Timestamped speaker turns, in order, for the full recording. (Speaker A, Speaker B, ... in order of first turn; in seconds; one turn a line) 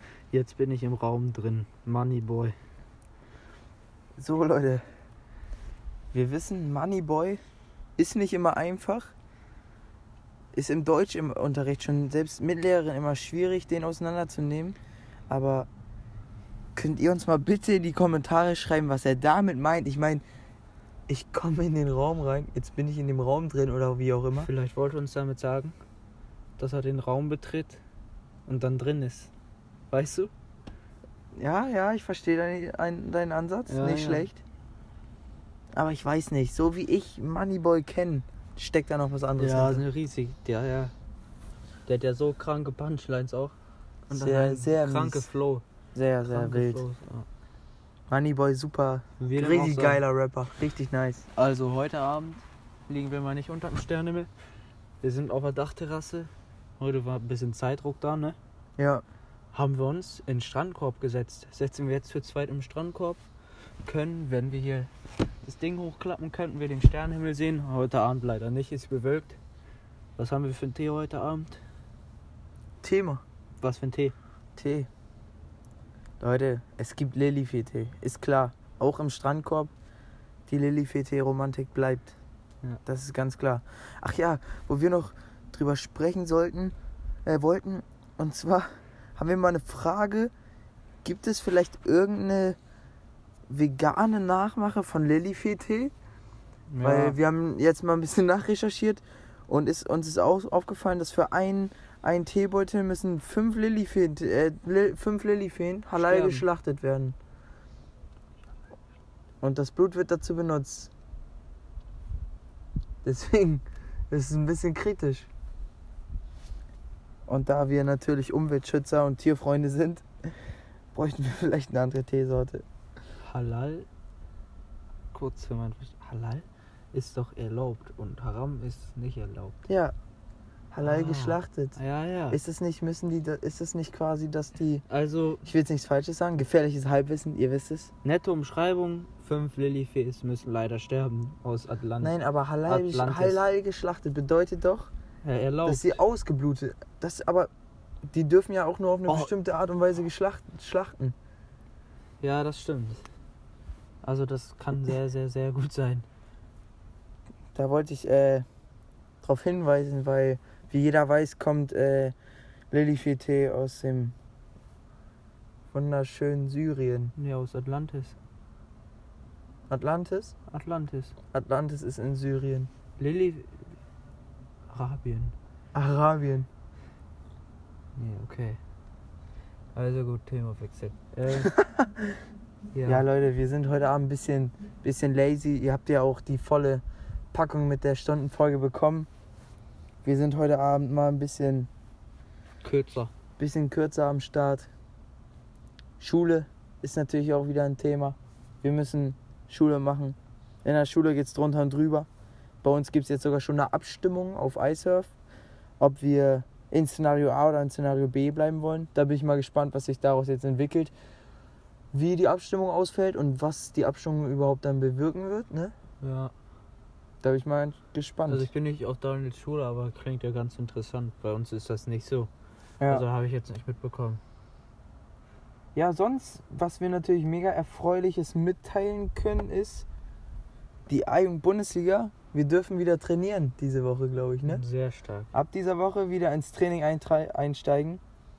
Speaker A: 0.3-2.5
Speaker B: 4.2-4.8
Speaker B: 6.1-7.4
Speaker B: 8.0-9.1
Speaker B: 10.5-14.8
Speaker B: 15.3-15.7
Speaker B: 16.7-20.2
Speaker B: 21.1-24.5
Speaker A: 24.4-25.8
Speaker A: 26.6-27.8
Speaker A: 28.4-29.3
Speaker A: 29.9-30.3
Speaker B: 31.4-34.4
Speaker A: 33.7-34.3
Speaker B: 35.7-39.8
Speaker A: 39.4-40.9
Speaker A: 41.9-43.5
Speaker A: 44.1-45.6
Speaker B: 44.1-45.3
Speaker B: 45.9-46.8
Speaker A: 46.3-47.3
Speaker B: 48.1-51.3
Speaker A: 49.2-50.0
Speaker A: 51.4-54.3
Speaker A: 55.0-58.4
Speaker B: 58.8-59.0
Speaker A: 59.5-63.2
Speaker A: 63.8-64.9
Speaker A: 65.4-69.4
Speaker A: 70.2-71.6
Speaker B: 72.8-73.2
Speaker A: 73.6-74.1
Speaker B: 74.5-74.9
Speaker B: 76.2-79.7
Speaker B: 80.5-82.1
Speaker B: 82.8-90.3
Speaker B: 91.0-92.6
Speaker B: 93.5-95.9
Speaker A: 96.7-97.2
Speaker B: 96.8-107.2
Speaker A: 106.0-106.4
Speaker B: 109.4-110.9
Speaker B: 113.0-115.3
Speaker B: 117.3-120.4
Speaker B: 120.9-122.6
Speaker A: 123.2-123.9
Speaker A: 125.1-129.6
Speaker B: 129.7-129.9
Speaker B: 130.7-131.8
Speaker A: 130.8-132.4
Speaker B: 132.3-134.8
Speaker A: 134.9-135.4
Speaker B: 135.4-137.9
Speaker A: 138.0-142.1
Speaker B: 142.0-144.9
Speaker A: 142.7-143.4
Speaker A: 145.2-146.0
Speaker B: 145.6-147.5
Speaker B: 148.1-151.1
Speaker A: 152.2-153.0
Speaker A: 154.0-156.1
Speaker B: 157.5-158.4
Speaker B: 159.2-162.1
Speaker B: 162.7-164.1
Speaker B: 165.7-167.1
Speaker A: 167.2-168.2
Speaker B: 169.7-170.3
Speaker A: 170.5-171.1
Speaker B: 171.3-172.7
Speaker A: 173.0-173.6
Speaker A: 174.7-175.3
Speaker B: 175.7-176.5
Speaker A: 177.9-178.6
Speaker A: 179.8-181.5
Speaker B: 181.4-182.2
Speaker A: 182.7-183.0
Speaker B: 182.8-189.1
Speaker B: 190.0-191.7
Speaker A: 192.6-193.1
Speaker B: 193.4-194.7
Speaker B: 196.0-202.1
Speaker B: 202.6-205.1
Speaker B: 205.8-210.9
Speaker B: 211.9-215.8
Speaker A: 216.0-216.3
Speaker B: 217.2-218.5
Speaker A: 218.3-222.3
Speaker A: 222.9-224.2
Speaker B: 225.8-229.8
Speaker B: 230.9-234.6
Speaker A: 234.5-235.3
Speaker B: 235.3-238.0